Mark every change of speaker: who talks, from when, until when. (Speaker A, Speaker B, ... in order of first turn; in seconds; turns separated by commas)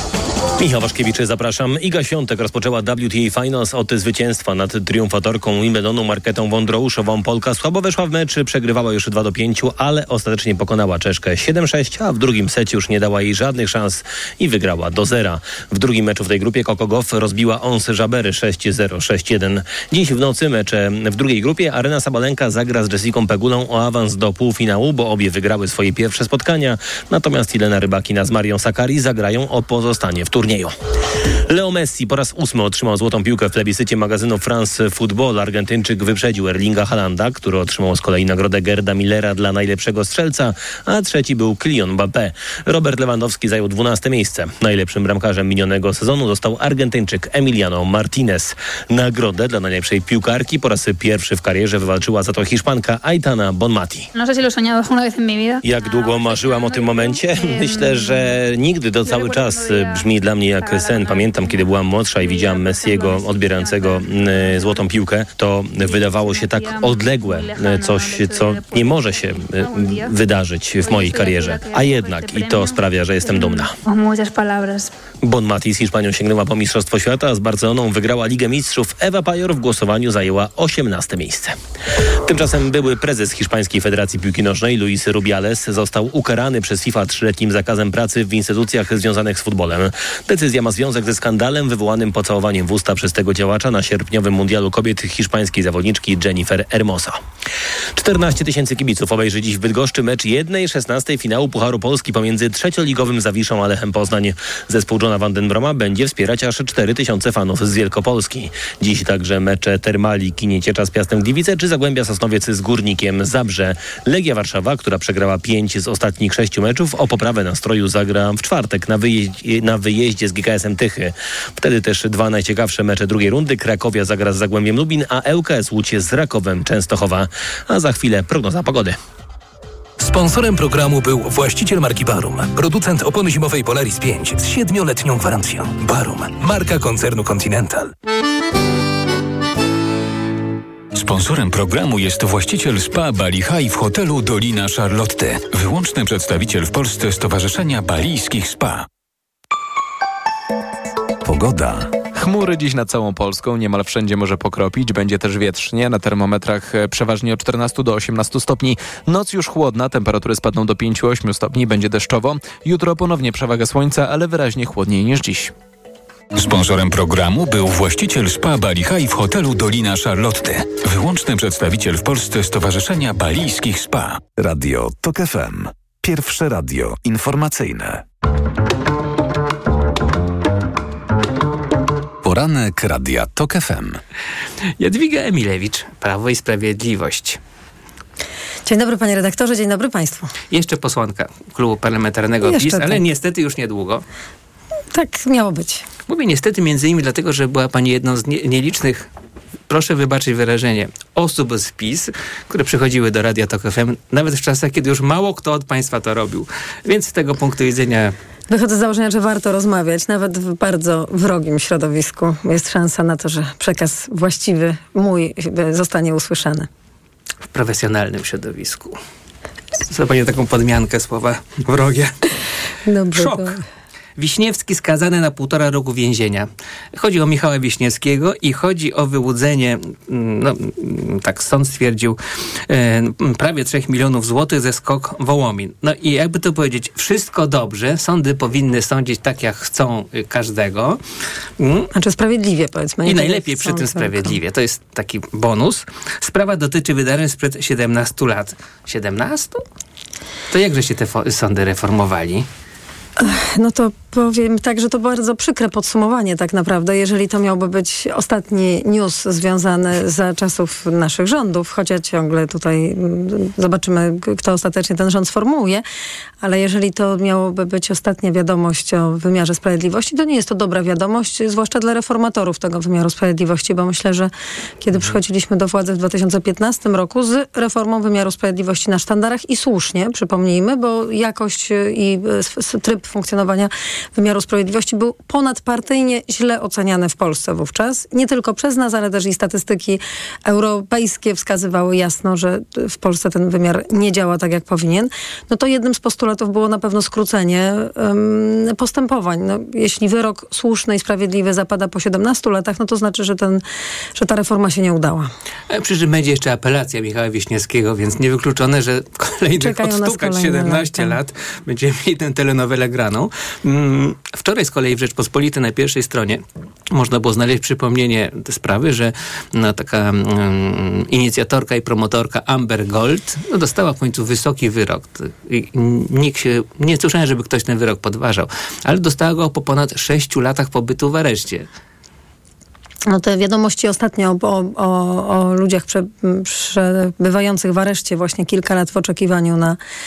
Speaker A: 0.6-30.8, Speaker A: 31.5-54.1, Speaker B: 54.1-58.4, Speaker A: 55.6-73.8, Speaker B: 59.0-64.9, Speaker B: 65.8-70.2, Speaker B: 70.8-74.9, Speaker A: 75.2-81.6, Speaker A: 82.2-97.2, Speaker A: 98.0-129.0, Speaker C: 130.0-137.9, Speaker D: 140.9-148.9, Speaker E: 151.2-151.9, Speaker F: 152.1-165.5, Speaker D: 166.3-174.3, Speaker E: 174.3-178.0, Speaker E: 182.2-184.0, Speaker G: 184.8-187.4, Speaker H: 188.7-190.3, Speaker G: 190.5-194.0, Speaker H: 192.4-193.0, Speaker H: 194.9-195.8, Speaker G: 196.1-199.1, Speaker G: 199.7-208.2, Speaker H: 208.5-216.7, Speaker G: 217.5-219.0, Speaker G: 219.8-222.3, Speaker H: 222.8-223.6, Speaker G: 223.1-223.6, Speaker G: 224.2-232.2, Speaker G: 232.7-241.0, Speaker G: 241.6-241.9, Speaker H: 241.9-244.3, Speaker G: 243.1-249.6, Speaker G: 250.5-252.5, Speaker H: 253.2-265.8, Speaker H: 266.4-303.6, Speaker H: 304.2-305.3, Speaker G: 305.7-331.7, Speaker H: 309.5-311.2, Speaker H: 333.1-339.8